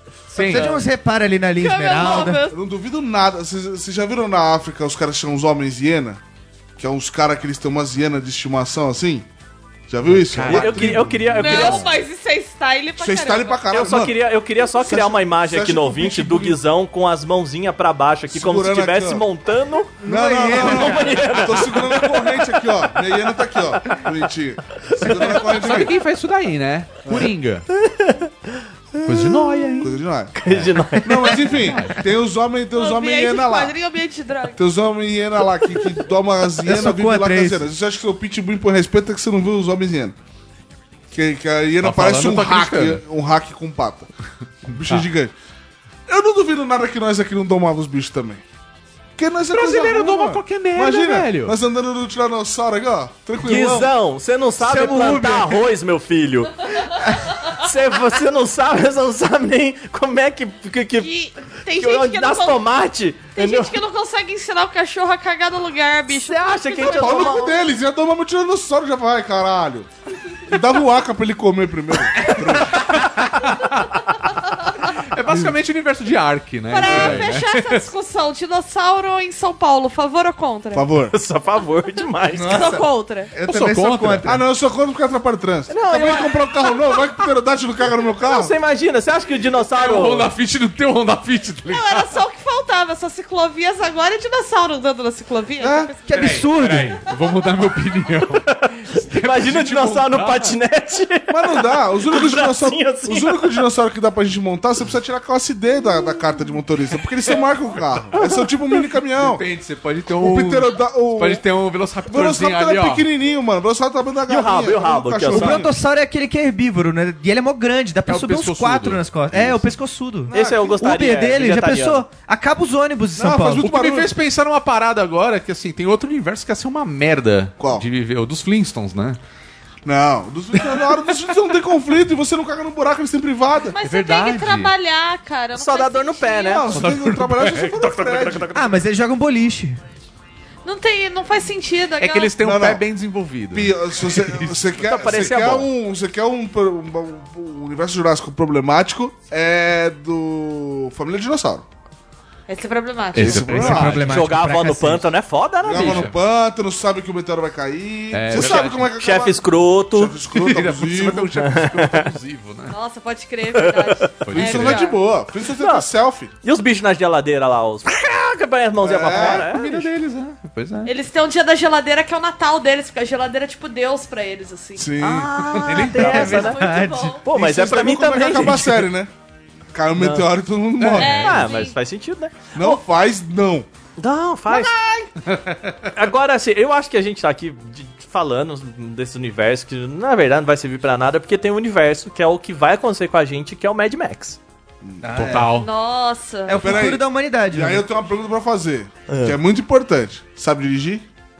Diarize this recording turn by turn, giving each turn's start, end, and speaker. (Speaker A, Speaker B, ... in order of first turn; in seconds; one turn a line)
Speaker A: 0.3-0.8
Speaker B: 0.3-2.4
Speaker C: 1.6-2.5
Speaker D: 2.5-6.2
Speaker D: 6.8-9.3
Speaker D: 9.9-11.1
Speaker A: 10.0-11.9
Speaker E: 10.4-11.9
Speaker C: 11.4-13.6
Speaker D: 13.0-16.6
Speaker E: 13.7-22.5
Speaker D: 18.3-19.2
Speaker B: 20.0-21.3
Speaker D: 20.0-25.9
Speaker E: 24.9-25.2
Speaker A: 25.2-27.7
Speaker D: 27.0-27.3
Speaker E: 27.7-29.8
Speaker A: 29.0-32.0
Speaker D: 29.8-30.4
Speaker E: 30.4-31.6
Speaker D: 31.0-33.7
Speaker C: 32.7-34.6
Speaker D: 34.6-40.1
Speaker B: 36.6-37.6
Speaker D: 41.1-44.1
Speaker A: 41.8-43.0
Speaker D: 44.6-45.3
Speaker D: 46.1-48.4
Speaker D: 49.1-53.9
Speaker A: 49.5-51.5
Speaker E: 53.4-56.7
Speaker B: 54.6-55.6
Speaker E: 57.5-61.1
Speaker C: 61.0-62.7
Speaker E: 61.7-63.8
Speaker C: 63.3-67.5
Speaker E: 66.1-67.6
Speaker D: 66.8-69.9
Speaker D: 70.5-73.0
Speaker A: 72.6-74.2
Speaker A: 74.8-77.8
Speaker D: 75.3-75.5
Speaker C: 76.7-80.8
Speaker D: 76.8-77.3
Speaker D: 80.7-81.2
Speaker E: 81.1-82.8
Speaker B: 82.3-84.4
Speaker C: 82.5-83.3
Speaker A: 83.4-84.3
Speaker D: 84.2-88.5
Speaker E: 85.7-87.0
Speaker E: 88.1-90.3
Speaker A: 89.6-92.2
Speaker C: 91.7-96.4
Speaker D: 95.6-95.9
Speaker B: 96.0-97.0
Speaker A: 96.1-100.6
Speaker E: 98.3-103.6
Speaker D: 101.3-109.4
Speaker E: 108.1-108.5
Speaker A: 109.2-113.1
Speaker D: 110.2-111.4
Speaker D: 112.1-115.7
Speaker E: 114.3-115.7
Speaker B: 115.3-123.7
Speaker A: 118.1-119.7
Speaker D: 120.3-120.9
Speaker E: 120.3-122.0
Speaker D: 123.2-124.1
Speaker A: 123.5-129.2
Speaker D: 127.6-127.8
Speaker D: 129.8-133.8
Speaker C: 133.7-136.7
Speaker A: 133.8-134.7
Speaker E: 135.5-136.9
Speaker D: 136.4-138.5
Speaker A: 136.7-137.8
Speaker E: 137.6-138.7
Speaker B: 138.5-139.8
Speaker C: 140.6-142.3
Speaker A: 142.0-144.7
Speaker D: 142.4-142.8
Speaker D: 143.5-151.7
Speaker E: 144.8-145.7
Speaker C: 152.5-153.4
Speaker A: 153.1-154.3
Speaker D: 153.2-154.2
Speaker B: 153.2-155.1
Speaker E: 154.0-156.1
Speaker D: 155.6-161.3
Speaker A: 155.7-156.2
Speaker A: 158.1-158.9
Speaker E: 158.3-160.2
Speaker A: 160.3-162.8
Speaker E: 161.4-162.1
Speaker C: 162.7-165.0
Speaker E: 163.5-164.0
Speaker A: 164.2-164.8
Speaker D: 164.3-166.3
Speaker E: 165.5-165.8
Speaker E: 166.4-169.9
Speaker D: 168.8-169.5
Speaker A: 169.2-170.9
Speaker C: 170.8-174.9
Speaker D: 174.8-175.5
Speaker E: 175.0-176.7
Speaker A: 175.5-176.5
Speaker C: 175.8-177.2
Speaker B: 176.0-177.2
Speaker E: 177.2-178.9
Speaker D: 177.3-179.1
Speaker D: 179.7-181.4
Speaker E: 179.9-180.3
Speaker A: 180.8-181.5
Speaker C: 181.0-181.8
Speaker E: 181.0-182.8
Speaker D: 182.5-183.7
Speaker E: 184.0-184.7
Speaker D: 184.5-185.1
Speaker A: 185.2-185.9
Speaker E: 185.9-194.4
Speaker B: 195.0-195.6
Speaker A: 195.1-195.7
Speaker C: 195.5-196.7
Speaker B: 196.4-197.8
Speaker D: 196.5-201.1
Speaker E: 199.1-199.4